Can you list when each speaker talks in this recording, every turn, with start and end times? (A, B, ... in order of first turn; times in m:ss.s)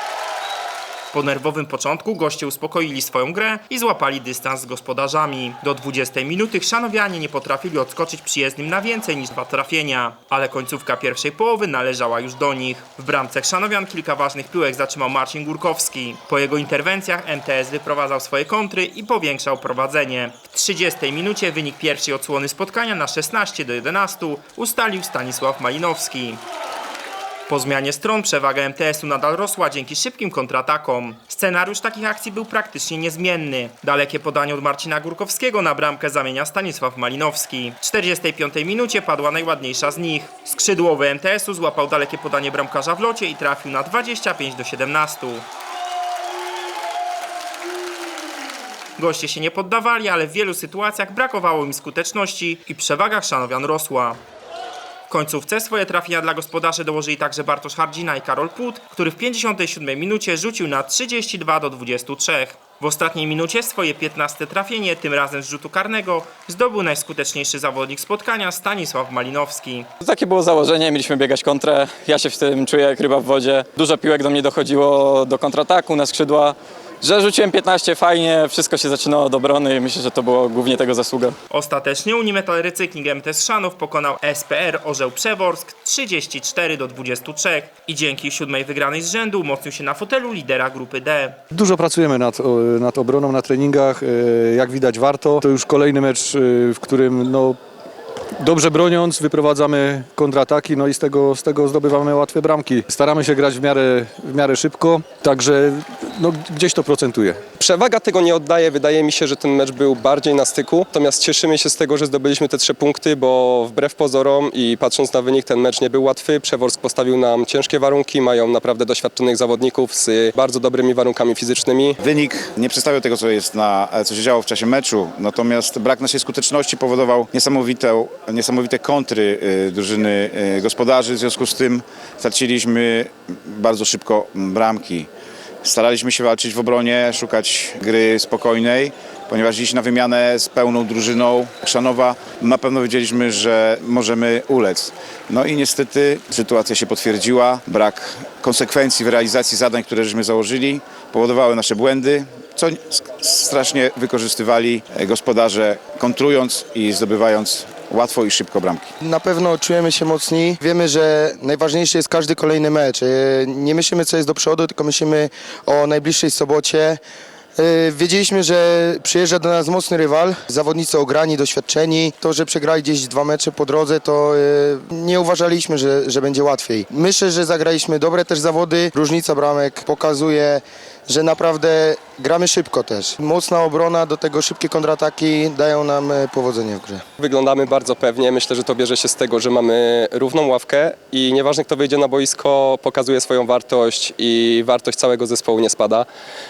0:01.1-0:26.4 A
0:27.5-0:45.4 A
0:49.0-0:54.2 A
0:55.1-1:09.9 A
1:10.0-1:21.4 B
1:21.5-1:31.4 A
1:31.5-1:37.6 C
1:38.4-1:47.4 C
1:47.6-2:02.0 D
2:02.0-2:15.1 E
2:15.6-2:38.9 E
2:39.0-2:47.0 F
2:47.6-3:07.0 F
3:07.2-3:16.0 D